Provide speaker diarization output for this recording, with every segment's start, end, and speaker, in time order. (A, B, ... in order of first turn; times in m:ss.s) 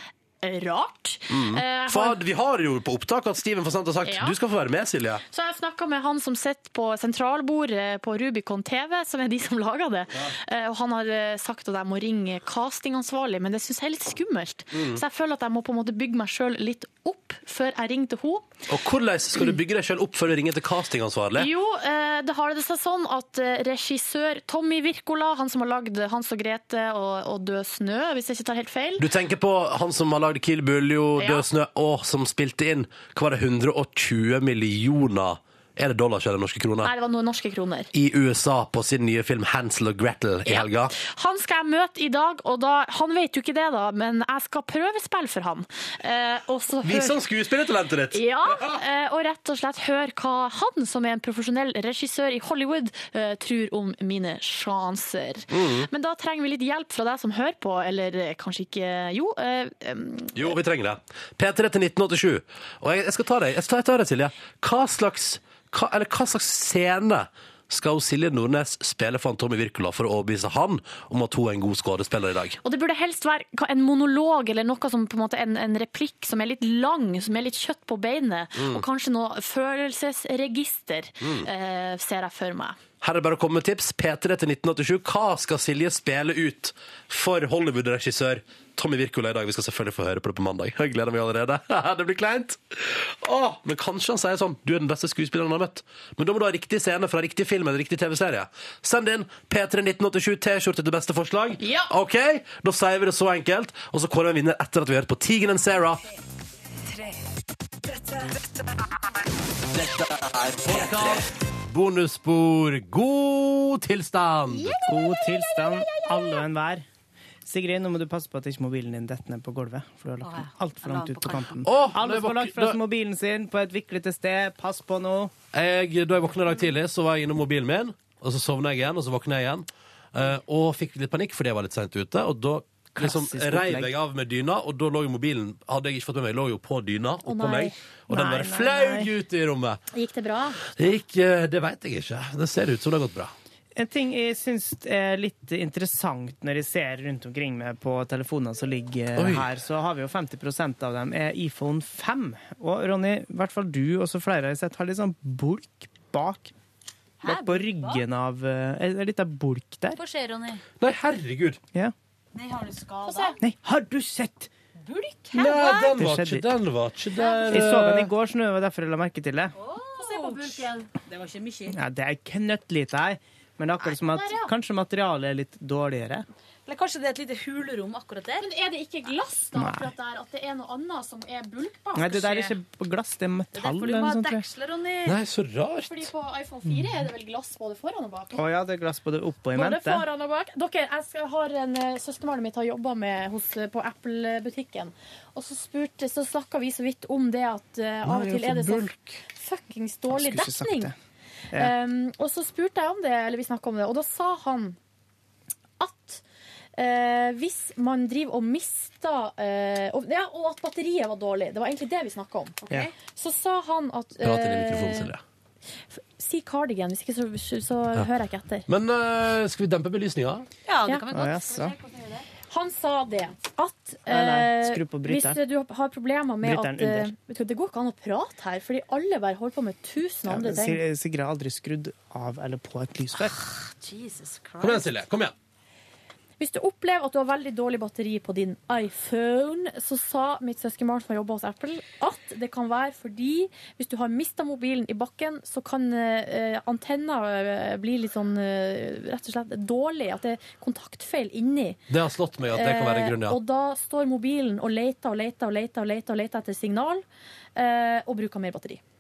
0:00.4-0:02.2 A
0:01.3-0:05.2 B
0:04.0-0:04.3 A
0:05.3-0:18.5 A
0:14.7-0:15.0 B
0:18.7-0:21.5 B
0:21.4-0:29.0 A
0:29.0-0:36.9 B
0:31.2-0:31.4 A
0:36.8-0:37.9 A
0:37.9-0:40.9 B
0:40.4-0:47.2 A
0:46.8-0:48.8 B
0:48.1-1:00.6 A
0:55.5-0:55.9 B
1:00.3-1:12.6 B
1:12.6-1:22.8 A
1:18.6-1:18.8 B
1:21.2-1:21.5 B
1:23.0-1:46.0 B
1:41.6-1:41.9 A
1:50.6-1:54.7 B
1:54.6-1:56.4 C
1:54.8-1:56.8 D
1:57.4-2:05.3 D
2:00.2-2:01.6 C
2:01.6-2:02.8 B
2:05.5-2:19.8 B
2:13.0-2:13.9 D
2:17.2-2:17.7 A
2:18.1-2:19.1 D
2:19.9-2:20.6 A
2:20.7-2:23.3 B
2:23.8-2:36.5 D
2:29.2-2:29.5 B
2:37.2-2:38.0 C
2:37.2-2:40.0 D
2:40.0-2:40.6 C
2:40.8-2:41.6 B
2:42.3-2:43.4 C
2:43.0-2:43.4 A
2:43.4-2:44.5 D
2:44.8-2:45.9 C
2:45.3-2:48.1 B
2:45.9-2:46.4 D
2:47.5-2:49.5 D
2:49.6-2:51.8 C
2:50.0-2:50.9 A
2:51.7-2:56.2 D
2:54.0-2:54.5 A
2:56.6-2:58.5 C
2:58.4-3:02.2 A
2:59.6-2:59.9 D
3:02.0-3:04.4 D
3:02.1-3:02.5 C
3:03.5-3:05.2 C
3:05.0-3:06.1 B
3:05.9-3:08.4 A
3:08.3-3:10.0 D
3:09.5-3:20.9 A
3:18.1-3:18.9 B
3:20.1-3:20.9 D
3:21.5-3:24.8 A
3:25.8-3:26.2 A
3:26.8-3:32.6 A
3:32.6-3:32.9 C
3:33.1-3:35.1 A
3:34.2-3:35.2 B
3:35.9-3:38.6 A
3:38.7-3:40.5 B
3:40.7-3:42.2 C
3:41.1-3:41.7 D
3:42.5-3:50.8 A
3:44.1-3:45.4 D
3:46.4-3:47.1 D
3:50.3-3:53.3 D
3:53.2-3:54.9 C
3:54.6-3:55.3 B
3:56.4-4:11.8 A
4:11.9-4:13.4 B
4:12.5-4:17.0 A
4:17.6-4:18.8 A